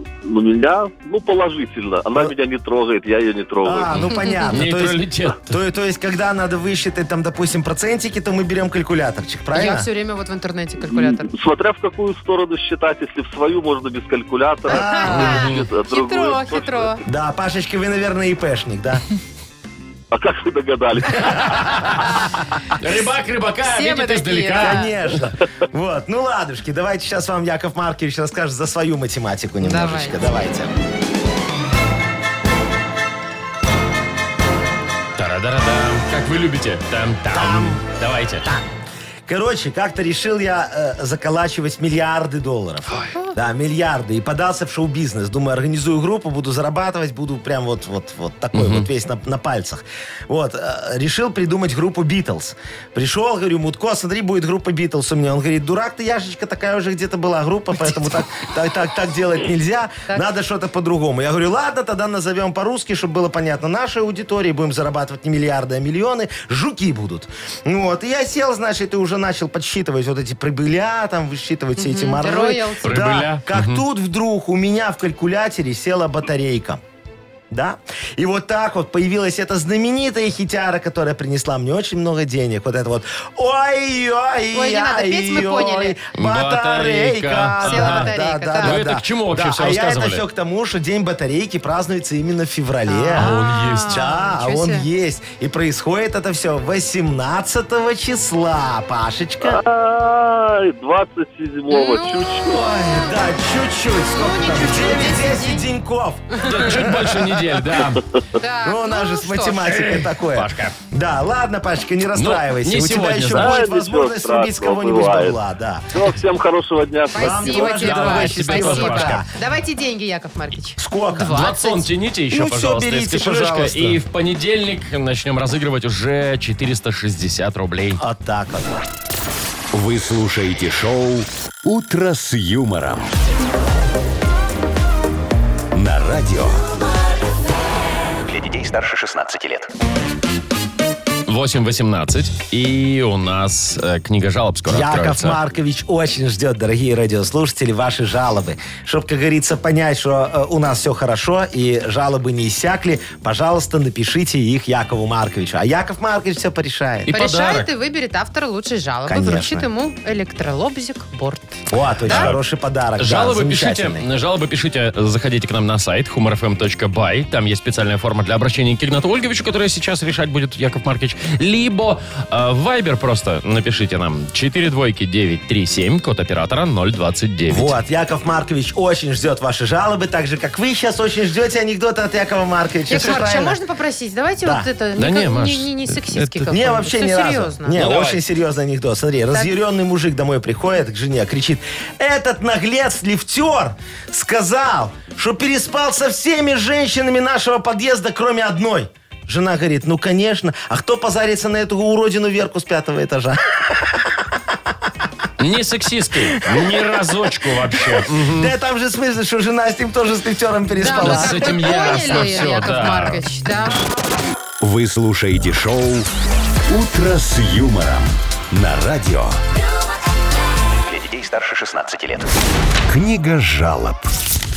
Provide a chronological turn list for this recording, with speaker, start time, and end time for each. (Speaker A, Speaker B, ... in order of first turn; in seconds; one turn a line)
Speaker A: 0.2-3.9
Speaker B: 3.6-9.9
Speaker C: 3.9-5.6
Speaker D: 9.5-11.3
Speaker A: 10.9-14.9
Speaker B: 14.7-15.5
Speaker D: 14.7-17.0
Speaker C: 15.1-15.7
Speaker A: 15.4-17.0
Speaker B: 17.0-19.0
Speaker A: 20.1-21.3
Speaker B: 21.2-21.7
Speaker C: 21.2-22.1
Speaker C: 22.8-24.9
Speaker D: 23.6-24.9
Speaker B: 24.6-30.7
Speaker D: 29.6-30.2
Speaker C: 35.2-38.5
Speaker B: 37.3-37.8
Speaker B: 39.3-76.8
Speaker C: 48.5-48.9
Speaker D: 71.8-73.0
Speaker C: 72.8-73.8
Speaker B: 77.5-93.3
Speaker D: 84.5-86.0
Speaker C: 86.2-90.2
Speaker D: 87.6-88.8
Speaker D: 92.9-94.9
Speaker C: 93.2-94.0
Speaker B: 93.9-99.6
Speaker A: 99.5-102.6
Speaker D: 101.7-103.3
Speaker B: 102.4-107.6
Speaker D: 104.1-105.7
Speaker D: 106.3-106.6
Speaker C: 106.5-108.0
Speaker D: 108.4-109.7
Speaker B: 108.7-116.0
Speaker C: 109.6-110.8
Speaker C: 112.2-113.6
Speaker A: 113.3-115.4
Speaker A: 115.9-117.8
Speaker D: 117.1-121.9
Speaker B: 117.2-119.3
Speaker C: 117.7-119.2
Speaker B: 120.8-121.5
Speaker C: 121.3-128.0
Speaker B: 122.3-124.0
Speaker B: 128.0-128.8
Speaker E: 129.7-133.1
Speaker E: 135.7-136.7
Speaker F: 138.2-139.7
Speaker C: 141.3-145.4
Speaker B: 144.7-157.1
Speaker C: 157.1-157.7
Speaker D: 157.1-162.3
Speaker B: 159.1-159.7
Speaker B: 161.7-164.1
Speaker C: 162.1-162.4
Speaker C: 163.0-177.7
Speaker B: 177.5-183.6
Speaker D: 182.9-187.8
Speaker C: 185.0-186.6
Speaker B: 186.5-204.0
Speaker C: 187.7-188.2
Speaker C: 205.4-208.5
Speaker B: 208.2-212.5
Speaker D: 210.8-213.8
Speaker C: 210.9-213.2
Speaker E: 214.6-216.1
Speaker E: 216.7-219.4
Speaker F: 220.8-222.3
Speaker E: 222.9-224.1